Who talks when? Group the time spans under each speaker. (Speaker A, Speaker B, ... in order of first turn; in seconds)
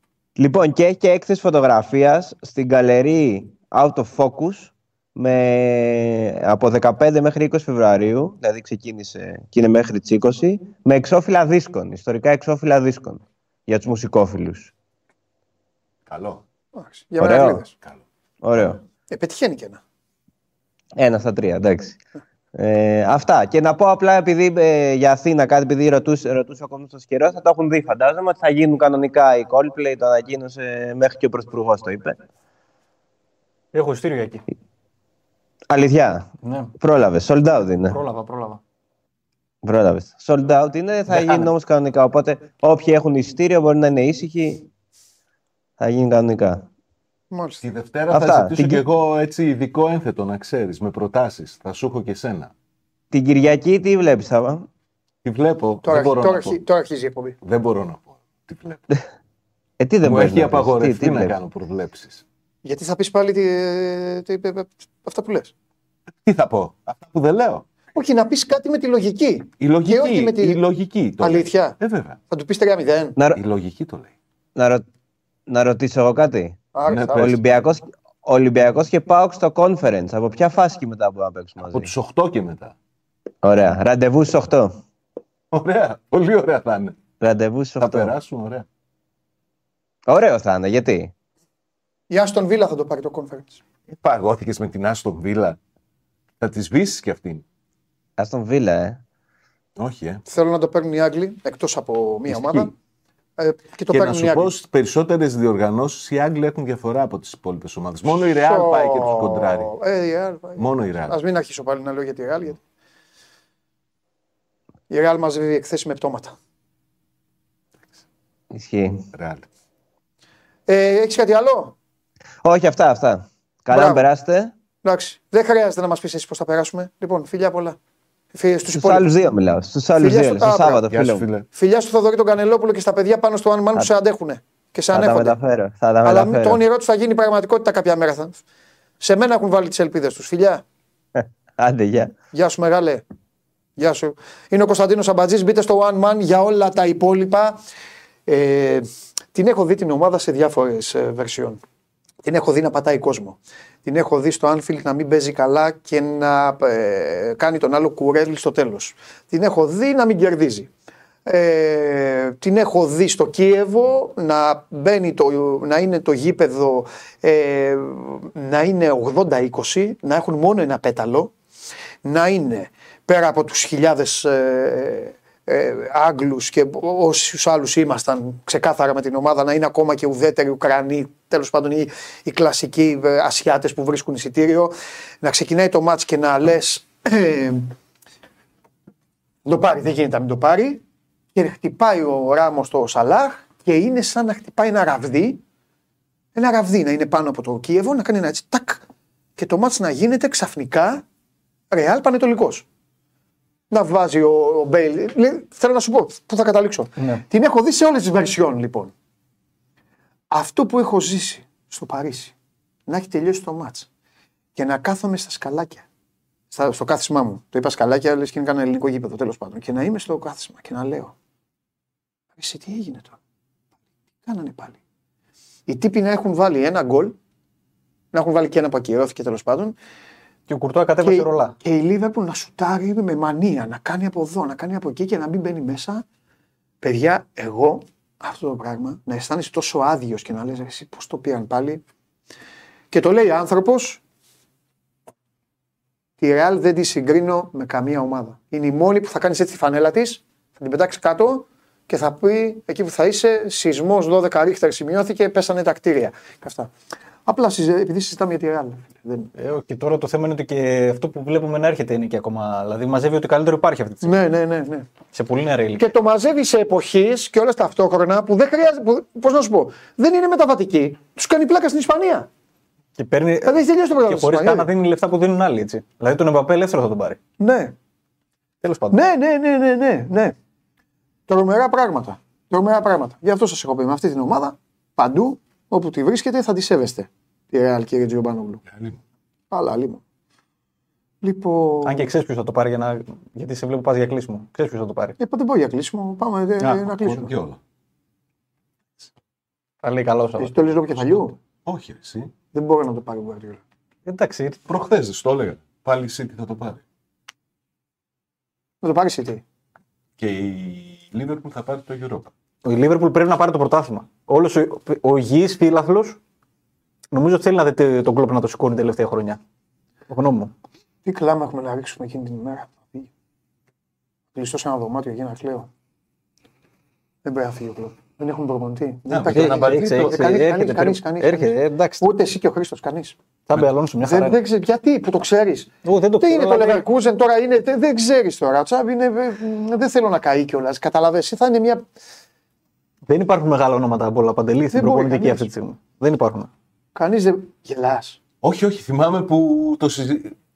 Speaker A: 0.4-14.7, 17.2-17.7, 18.4-18.8, 21.0-22.0, 22.6-32.2, 35.7-38.0, 39.6-44.6, 45.8-46.6, 48.1-48.8, 53.1-54.7, 59.8-61.4, 73.2-73.4, 74.6-74.8, 75.5-81.9, 83.4-84.7, 87.2-88.2, 90.1-91.1, 98.2-99.0, 118.5-119.0, 122.4-124.5, 128.7-131.3, 134.9-136.6, 141.2-142.2
Speaker B: 16.1-16.4, 17.7-18.0, 47.6-52.5, 55.2-56.6, 57.4-58.8, 60.0-62.2, 66.2-67.7, 69.6-72.2, 73.3-74.1, 76.9-77.6, 81.6-82.7, 85.5-87.0, 87.8-88.7, 93.9-95.6, 96.4-97.4, 99.8-100.2, 102.3-102.7, 103.9-109.7, 110.6-111.2, 119.2-119.5, 130.8-131.4, 288.7-289.0, 297.1-297.6, 301.7-302.3, 304.7-306.8, 310.2-312.3, 329.1-330.2, 348.4-350.4
Speaker C: 16.8-17.7, 19.1-19.8, 47.3-47.6, 55.8-57.4, 62.6-65.5, 68.0-70.6, 71.2-71.8, 72.3-73.2, 76.8-77.3, 92.1-93.6, 100.3-102.7, 103.4-104.5, 108.2-112.6, 114.9-116.3, 120.7-121.8, 123.7-124.0, 124.8-127.8, 128.3-129.1, 130.0-130.8, 131.5-135.3, 136.0-138.4, 139.0-140.6, 142.3-143.0, 143.8-147.6, 148.3-151.6, 152.2-160.7, 161.3-171.3, 172.1-187.7, 189.5-190.8, 191.3-195.4, 196.3-198.8, 199.4-201.0, 201.7-202.7, 203.7-208.9, 210.3-212.3, 212.9-213.9, 214.6-215.8, 216.5-221.1, 222.4-223.2, 224.2-224.8, 225.7-227.2, 228.1-229.8, 231.0-236.0, 236.8-241.8, 242.9-244.0, 246.2-256.7, 257.3-259.3, 264.0-264.9, 265.8-272.3, 273.4-274.7, 277.4-277.7, 278.9-280.4, 281.3-288.6, 289.5-290.0, 291.2-292.1, 295.2-297.3, 300.4-301.4, 302.5-303.6, 308.8-309.4, 321.1-323.1, 324.4-325.7, 327.2-333.2, 334.0-335.7, 336.2-341.8, 344.7-345.5, 347.0-348.2
Speaker D: 33.7-34.4, 36.4-36.7, 37.9-38.6, 41.1-41.5, 230.5-231.5, 259.4-264.2, 265.1-265.8, 273.0-277.2, 278.6-279.0, 291.9-295.2, 296.6-297.1, 299.8-300.5, 304.1-304.7, 312.6-316.2, 317.1-319.4, 320.1-320.5, 329.3-332.1, 333.5-334.4, 335.8-336.8, 343.1-346.5